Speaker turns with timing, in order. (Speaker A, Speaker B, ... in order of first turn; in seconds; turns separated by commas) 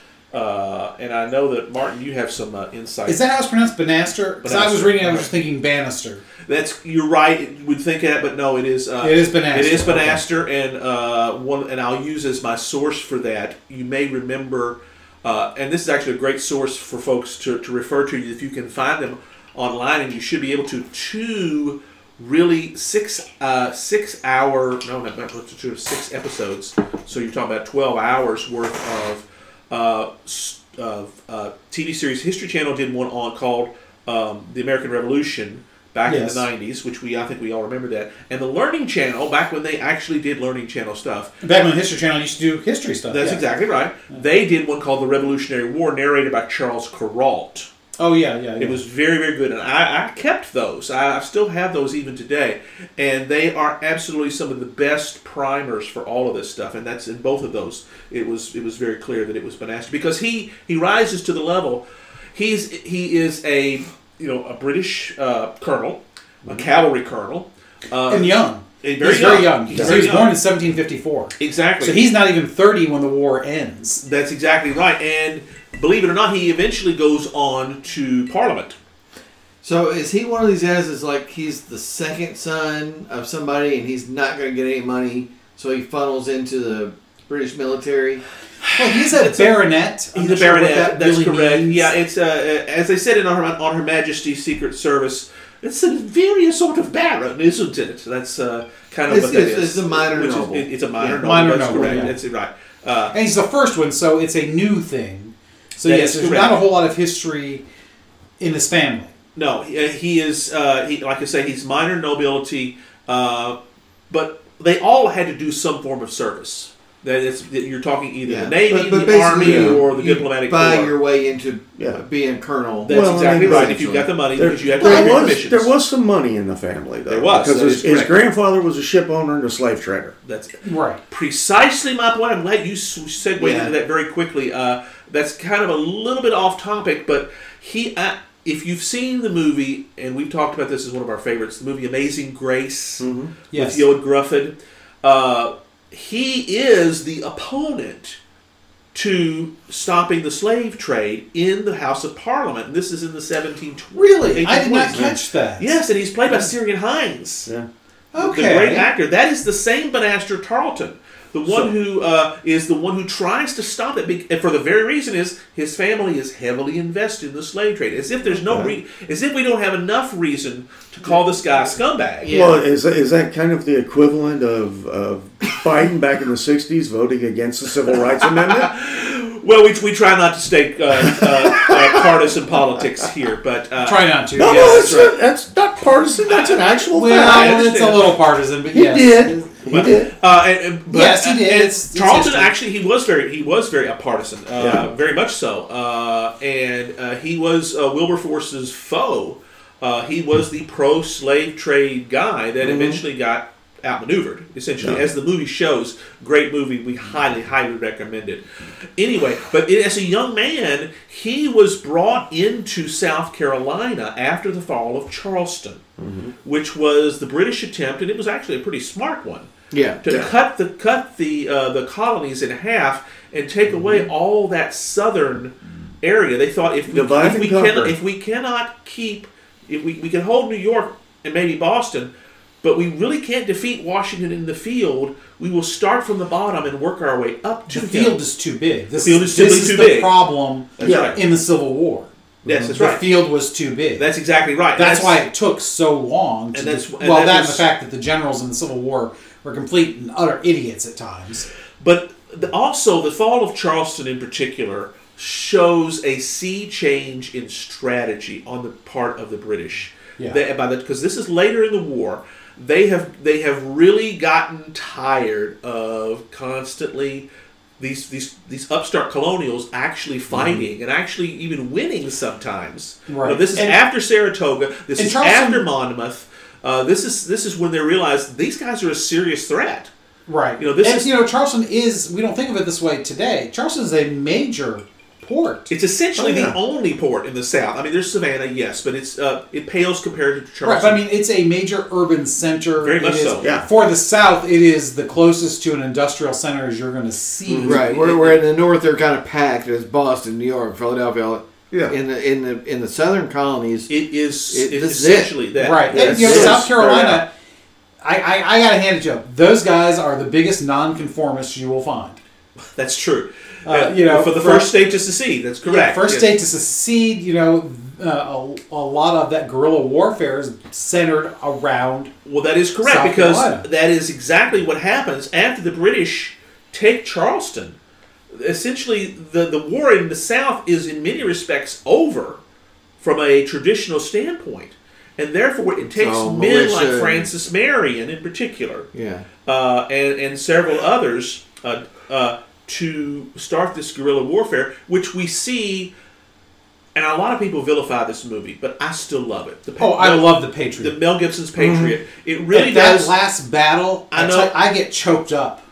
Speaker A: 0.3-3.2, Speaker B: 3.1-6.2, Speaker A: 4.4-5.3, Speaker A: 6.5-41.3, Speaker B: 9.0-10.2, Speaker B: 36.1-36.5, Speaker B: 41.4-43.5, Speaker A: 43.1-47.7, Speaker B: 48.0-48.8, Speaker A: 48.6-70.3, Speaker B: 68.1-74.0, Speaker C: 69.7-70.0, Speaker A: 71.4-72.0, Speaker A: 74.0-78.8, Speaker D: 79.6-88.2, Speaker B: 88.7-91.9, Speaker A: 89.0-89.6, Speaker A: 90.1-103.2, Speaker D: 99.1-102.1, Speaker B: 101.2-102.2, Speaker B: 103.1-107.6, Speaker A: 105.8-106.6, Speaker B: 108.4-109.1, Speaker A: 109.3-113.6, Speaker A: 114.1-120.9, Speaker D: 118.3-124.1, Speaker C: 119.4-119.8, Speaker A: 122.8-125.7, Speaker C: 122.9-130.1, Speaker B: 124.8-125.2, Speaker A: 127.1-128.2, Speaker A: 130.2-130.6, Speaker B: 130.6-131.0, Speaker A: 131.1-148.2, Speaker D: 133.4-133.7, Speaker C: 143.0-143.3, Speaker B: 143.5-143.9, Speaker A: 148.9-157.5, Speaker B: 153.9-155.8, Speaker B: 158.1-158.9, Speaker A: 158.2-172.3, Speaker C: 168.4-168.8, Speaker D: 172.2-172.6, Speaker C: 172.2-178.7, Speaker A: 178.2-185.2, Speaker C: 181.0-182.1, Speaker B: 183.8-184.9, Speaker C: 184.4-187.7, Speaker A: 186.2-188.1, Speaker B: 186.9-189.9, Speaker C: 188.7-190.1, Speaker A: 189.7-208.4, Speaker B: 190.9-192.5, Speaker C: 194.6-194.9, Speaker C: 202.6-203.0, Speaker A: 209.0-215.8, Speaker C: 216.0-216.3, Speaker A: 216.4-219.5, Speaker D: 219.7-220.0, Speaker A: 220.0-232.1, Speaker C: 220.1-220.3, Speaker C: 223.7-224.1, Speaker C: 226.9-227.9, Speaker A: 232.6-238.2, Speaker B: 237.7-242.1, Speaker A: 239.0-240.2, Speaker A: 240.8-241.2, Speaker C: 240.8-241.2, Speaker C: 242.4-242.7, Speaker A: 242.4-243.1, Speaker B: 242.7-244.1, Speaker A: 244.0-245.2, Speaker B: 244.8-251.5, Speaker A: 246.5-247.7, Speaker A: 251.8-267.3, Speaker A: 267.8-279.9, Speaker C: 270.3-270.6, Speaker B: 273.1-273.8, Speaker B: 275.0-275.6, Speaker B: 280.3-285.7, Speaker A: 280.6-281.1, Speaker A: 285.7-291.0, Speaker C: 286.2-286.6, Speaker B: 290.6-297.9, Speaker A: 292.8-293.5, Speaker C: 293.4-293.7, Speaker C: 297.5-297.9, Speaker D: 297.6-303.9, Speaker A: 297.8-298.4, Speaker C: 301.7-302.0, Speaker A: 303.9-307.2, Speaker D: 304.5-305.3, Speaker B: 305.6-307.3, Speaker C: 305.9-307.2, Speaker B: 308.0-312.2, Speaker A: 312.8-316.4, Speaker B: 313.7-314.7, Speaker B: 315.6-322.1, Speaker A: 322.3-327.8, Speaker B: 322.8-323.6, Speaker A: 328.3-332.4, Speaker A: 333.0-338.9, Speaker D: 335.9-337.3, Speaker D: 338.9-339.3, Speaker A: 339.4-345.9, Speaker A: 346.9-353.1, Speaker B: 349.8-350.9, Speaker C: 351.6-352.0, Speaker B: 352.5-355.6, Speaker A: 354.1-354.5